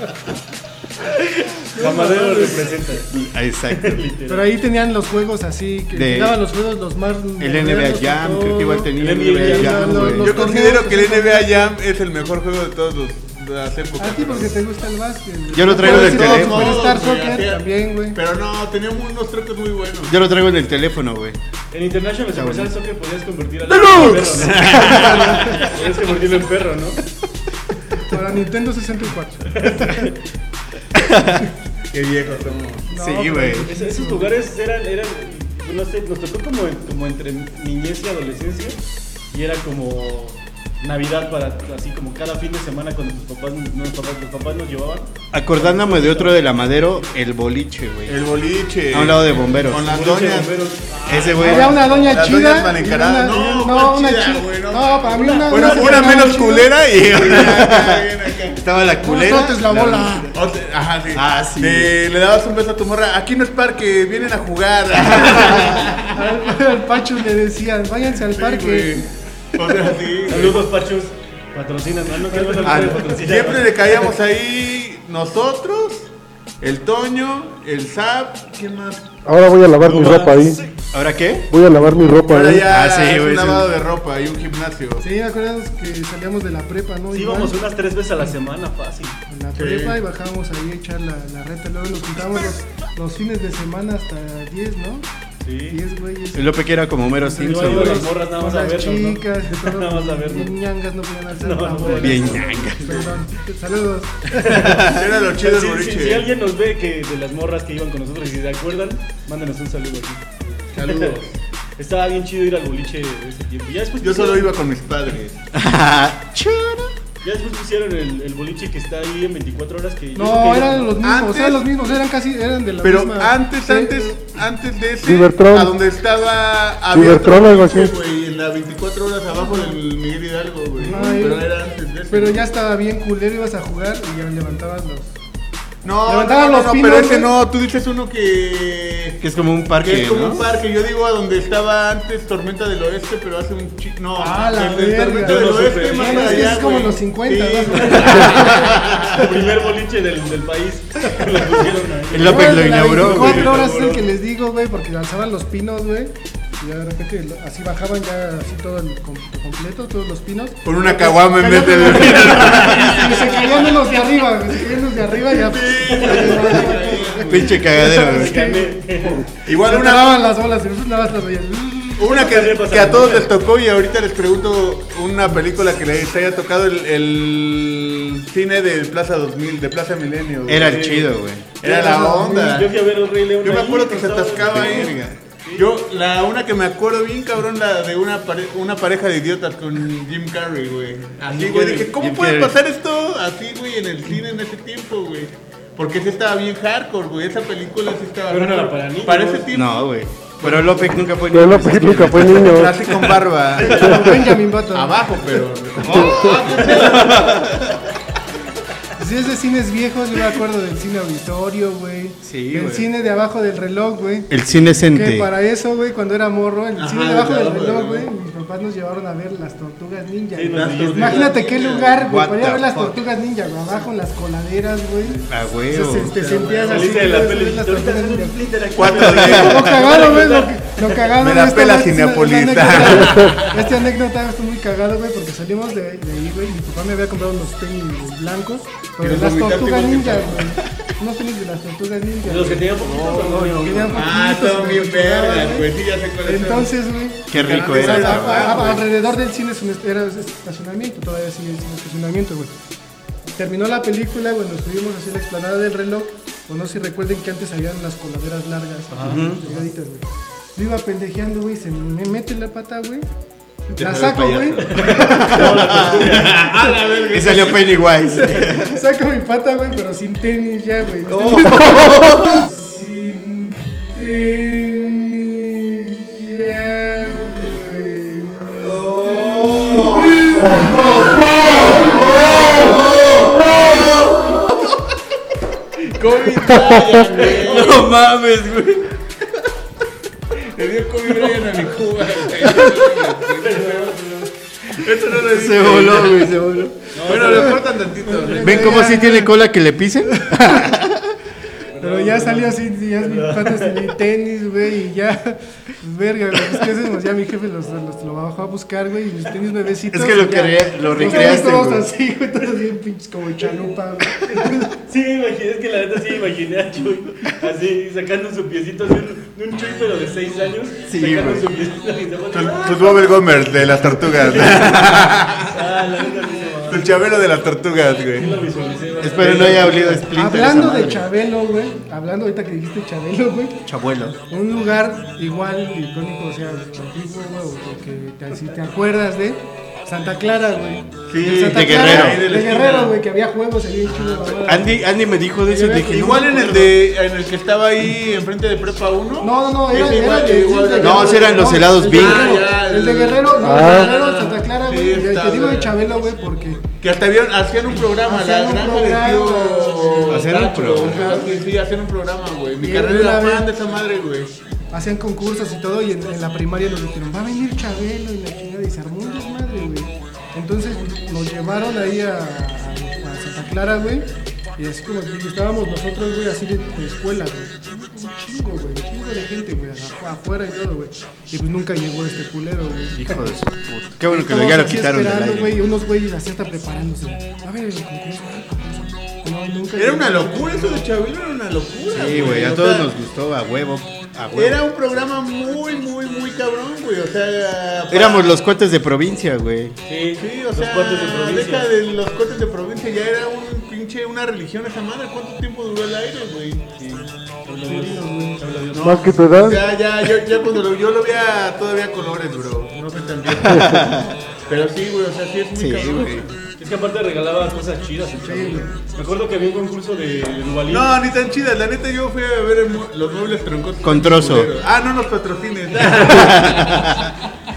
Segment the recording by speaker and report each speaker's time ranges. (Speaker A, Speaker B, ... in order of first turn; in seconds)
Speaker A: 1.7-2.8, 4.3-11.7, 14.0-18.2, 28.0-30.1, 32.9-34.4, 51.4-56.7, 59.0-60.3, 66.1-69.1, 85.0-87.6, 89.3-95.1, 95.7-96.5, 97.2-104.7, 120.1-124.2, 129.5-129.8, 130.8-131.5, 132.1-135.1, 136.1-137.3, 144.2-149.2, 152.2-172.3, 181.6-182.6, 203.6-205.4, 209.0-214.3, 214.8-228.4, 228.9-245.7, 246.2-252.5, 253.3-263.1, 263.7-264.9, 268.0-281.0, 298.1-299.4, 300.2-300.5, 301.8-314.8, 330.1-333.6, 334.3-344.9, 345.4-346.7, 349.2-356.6, 358.0-361.4, 362.6-363.5, 364.7-374.1, 374.6-383.4, 384.1-390.9, 407.6-408.4, 418.2-418.7
Speaker B: 1.7-3.1, 3.7-4.5, 9.0-10.2, 21.7-27.0, 29.5-30.1, 33.6-38.8, 39.3-46.4, 49.6-52.2, 55.0-56.3, 70.3-74.1, 79.8-80.7, 87.1-89.2, 95.4-95.8, 97.4-100.6, 101.4-103.0, 104.3-111.2, 111.8-114.5, 117.2-121.0, 130.8-131.2, 145.2-146.6, 147.8-154.1, 165.8-166.6, 167.8-169.2, 172.0-173.4, 180.6-181.1, 181.7-185.7, 191.2-191.9, 198.3-199.5, 206.6-207.3, 220.3-221.3, 226.6-231.1, 242.2-244.0, 258.9-259.4, 264.6-266.8, 293.2-294.3, 296.9-297.6, 301.7-303.9, 314.7-327.1, 328.2-330.1, 399.9-401.7, 406.8-409.2, 416.6-420.9
Speaker C: 3.1-4.0, 5.9-6.4, 7.4-10.4, 15.5-16.9, 20.1-21.4, 22.3-22.7, 23.7-25.6, 30.9-31.5, 32.9-33.7, 45.3-48.2, 48.9-49.9, 51.1-51.8, 56.9-60.3, 61.1-61.9, 65.0-65.9, 80.9-81.5, 82.6-83.7, 96.3-98.1, 101.8-103.1, 104.5-105.0, 115.5-116.9, 139.2-140.5, 152.1-153.6, 167.2-168.4, 180.5-181.5, 184.4-185.2, 191.9-192.5, 199.5-203.2, 205.8-207.7, 212.2-212.9, 214.3-215.3, 222.0-223.0, 225.3-226.2, 229.2-229.6, 242.8-243.9, 247.3-248.7, 259.0-259.4, 263.8-266.1, 267.1-268.8, 271.1-272.5, 279.0-280.2, 283.6-284.3, 287.2-288.9, 292.4-292.9, 295.1-297.2, 298.4-301.1, 309.9-311.9, 320.9-321.5, 329.0-331.1, 333.7-334.2, 341.4-342.2, 344.4-346.7, 350.8-352.4, 360.1-361.3, 382.9-385.6, 391.9-394.6, 397.9-399.8, 413.4-414.2, 415.5-416.2, 423.8-424.5, 425.8-427.1
Speaker D: 10.1-14.6, 15.6-20.1, 23.9-25.6, 31.9-32.9, 48.1-50.6, 51.5-58.6, 60.3-66.3, 68.2-70.6, 72.6-76.1, 76.6-79.1, 82.3-85.0, 89.5-90.0, 104.7-106.3, 110.7-111.3, 114.0-115.4, 121.0-121.7, 122.8-132.4, 135.8-139.2, 139.8-149.3, 160.6-164.0, 165.2-167.6, 169.4-170.3, 172.0-180.8, 181.6-182.8, 183.4-185.0, 185.6-199.9, 200.4-201.0, 202.3-207.5, 216.7-218.1, 220.5-222.0, 226.1-227.1, 228.8-229.7, 231.1-233.7, 239.0-240.6, 243.9-246.8, 247.3-248.9, 263.8-264.3, 265.8-267.9, 283.4-284.0, 285.9-287.9, 290.4-293.9, 294.7-296.4, 297.0-298.9, 322.3-325.6, 326.7-328.3, 341.1-343.0, 343.8-344.4, 345.9-355.7, 356.8-364.3, 389.7-392.9, 394.3-398.4, 400.2-406.6, 408.7-416.3, 420.7-427.1
Speaker E: 79.2-80.6, 81.5-82.7, 125.0-125.7, 126.9-127.9, 201.3-202.7, 353.4-353.9, 408.8-409.6